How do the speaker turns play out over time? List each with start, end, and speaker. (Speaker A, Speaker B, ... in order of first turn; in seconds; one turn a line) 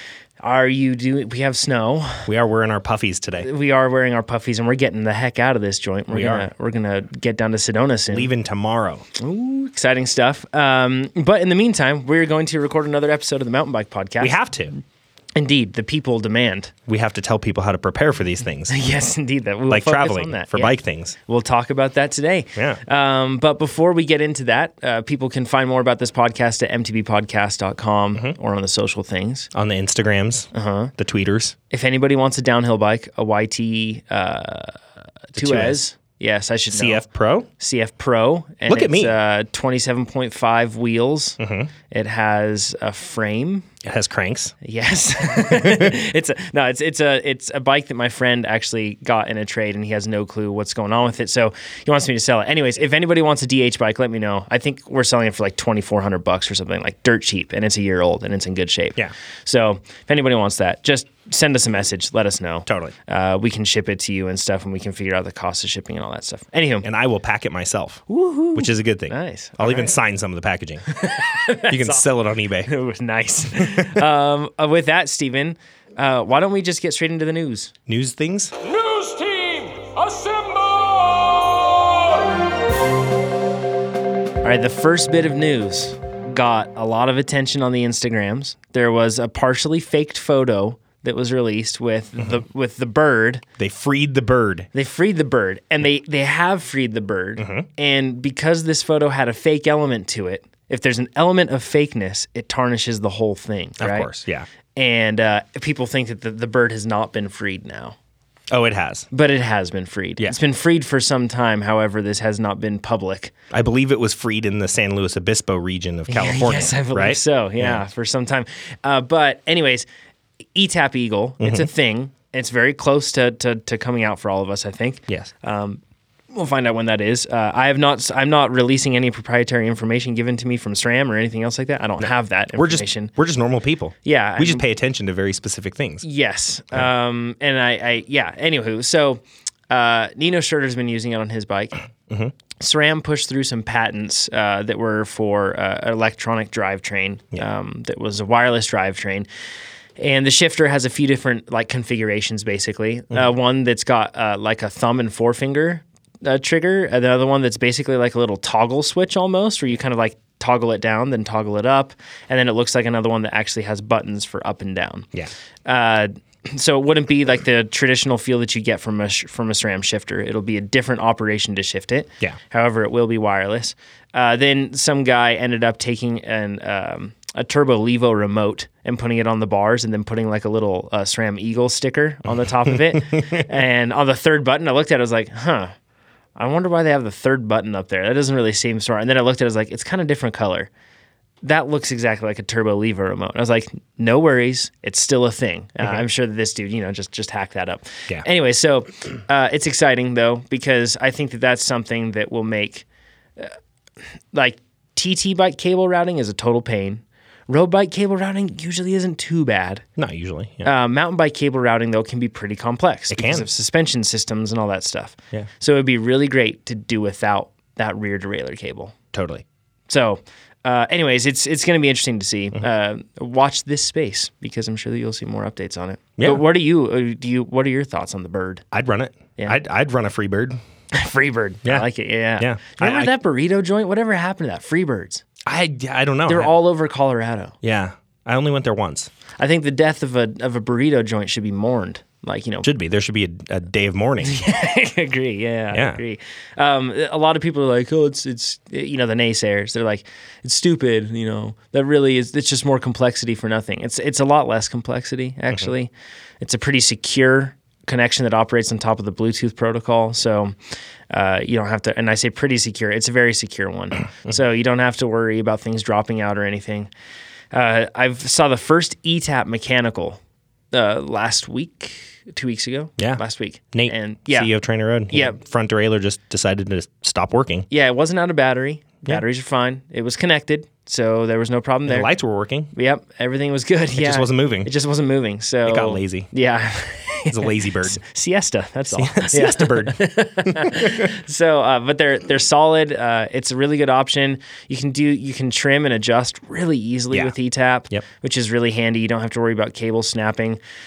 Speaker A: 0.4-2.3
Speaker B: 2.3-3.5
Speaker A: 3.4-8.3
Speaker B: 6.1-6.5
Speaker B: 8.1-9.1
Speaker A: 9.2-14.3
Speaker B: 14.2-14.7
Speaker A: 15.3-16.7
Speaker B: 16.9-18.7
Speaker A: 18.7-29.5
Speaker B: 19.7-21.1
Speaker B: 22.5-22.8
Speaker B: 29.5-31.5
Speaker A: 30.5-30.9
Speaker A: 31.7-34.8
Speaker A: 35.3-37.0
Speaker B: 35.3-35.8
Speaker B: 36.7-37.5
Speaker A: 37.6-43.7
Speaker B: 38.7-39.1
Speaker B: 41.4-41.7
Speaker B: 43.8-44.5
Speaker A: 44.6-66.8
Speaker B: 45.5-45.9
Speaker B: 62.7-62.9
Speaker B: 66.8-70.8
Speaker A: 68.1-69.9
Speaker A: 70.9-72.0
Speaker B: 71.7-72.7
Speaker A: 72.6-77.7
Speaker B: 73.5-74.0
Speaker B: 77.9-78.5
Speaker C: 78.6-82.1
Speaker A: 84.4-93.4
Speaker B: 92.2-92.4
Speaker B: 93.6-94.7
Speaker A: 94.7-104.1
Speaker B: 97.4-97.7
Speaker B: 103.8-104.5
Speaker A: 104.8-108.0
Speaker B: 108.5-109.1
Speaker A: 109.1-113.3
Speaker B: 113.5-117.8
Speaker A: 116.1-119.8
Speaker A: 120.5-125.8
Speaker B: 121.4-121.7
Speaker A: 126.3-133.1
Speaker B: 132.0-136.0
Speaker A: 134.0-134.6
Speaker A: 136.0-141.8
Speaker A: 142.6-149.3
Speaker A: 150.0-165.1
Speaker A: 165.6-185.7
Speaker B: 182.7-183.4
Speaker A: 186.3-190.7
Speaker A: 191.4-202.8
Speaker A: 204.3-209.8
Speaker B: 210.0-210.7
Speaker A: 210.6-218.9
Speaker B: 213.1-213.5
Speaker B: 219.1-219.4
Speaker A: 219.9-228.6
Speaker B: 226.2-226.4
Speaker B: 228.7-230.6
Speaker A: 230.9-235.2
Speaker B: 232.4-233.1
Speaker B: 235.4-236.5
Speaker A: 236.3-237.6
Speaker B: 237.6-239.1
Speaker A: 239.4-242.7
Speaker B: 242.6-244.5
Speaker A: 244.2-260.5
Speaker B: 245.7-246.0
Speaker A: 261.1-266.9
Speaker A: 267.5-270.2
Speaker A: 270.7-274.5
Speaker B: 273.7-277.7
Speaker A: 275.1-275.4
Speaker A: 277.7-282.1
Speaker B: 281.9-282.7
Speaker A: 282.7-300.6
Speaker B: 283.9-284.7
Speaker B: 285.6-286.3
Speaker B: 287.3-288.0
Speaker B: 288.9-291.1